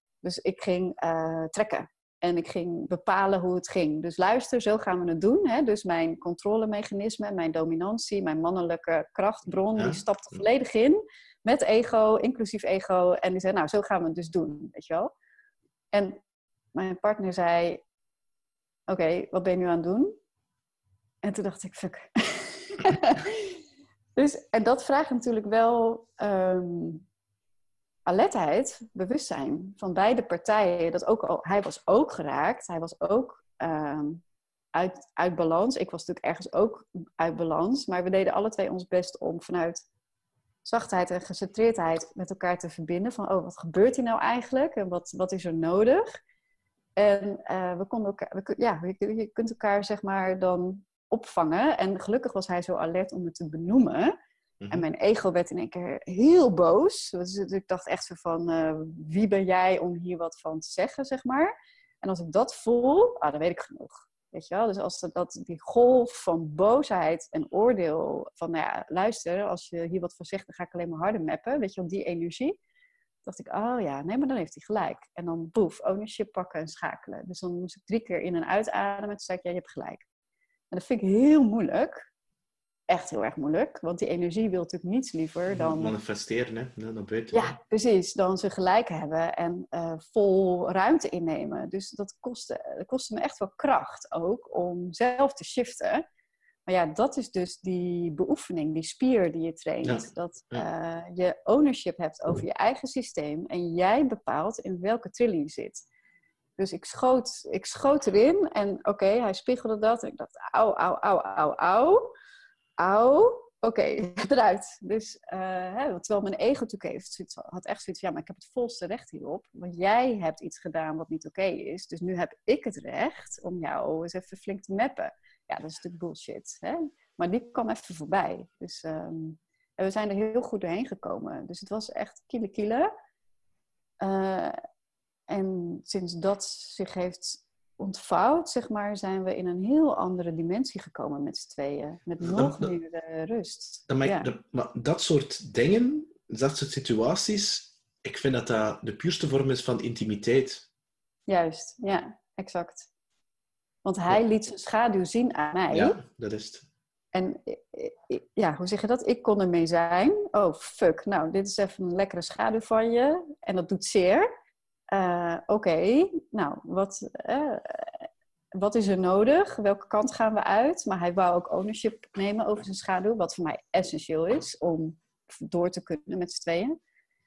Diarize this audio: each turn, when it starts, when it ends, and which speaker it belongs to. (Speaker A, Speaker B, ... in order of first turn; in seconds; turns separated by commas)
Speaker A: 0.2-15.1, Speaker B: 9.8-10.4, Speaker A: 15.9-16.2, Speaker A: 16.7-17.8, Speaker A: 18.9-20.1, Speaker A: 21.2-23.6, Speaker A: 24.1-27.0, Speaker A: 28.1-34.2, Speaker A: 34.7-39.8, Speaker A: 40.6-46.1, Speaker A: 47.0-54.1, Speaker B: 54.6-54.9, Speaker A: 54.7-72.6, Speaker A: 73.2-80.0, Speaker A: 80.7-82.1, Speaker A: 82.9-85.9, Speaker B: 85.5-87.5, Speaker A: 87.3-96.0, Speaker A: 96.7-105.8, Speaker B: 99.8-100.7, Speaker A: 106.6-112.1, Speaker A: 112.8-132.9, Speaker A: 134.0-134.6, Speaker A: 135.3-144.3, Speaker B: 142.2-142.7, Speaker B: 143.9-150.7, Speaker A: 151.3-152.9, Speaker A: 153.8-156.0, Speaker B: 155.7-156.7, Speaker A: 157.1-164.3, Speaker A: 164.9-176.8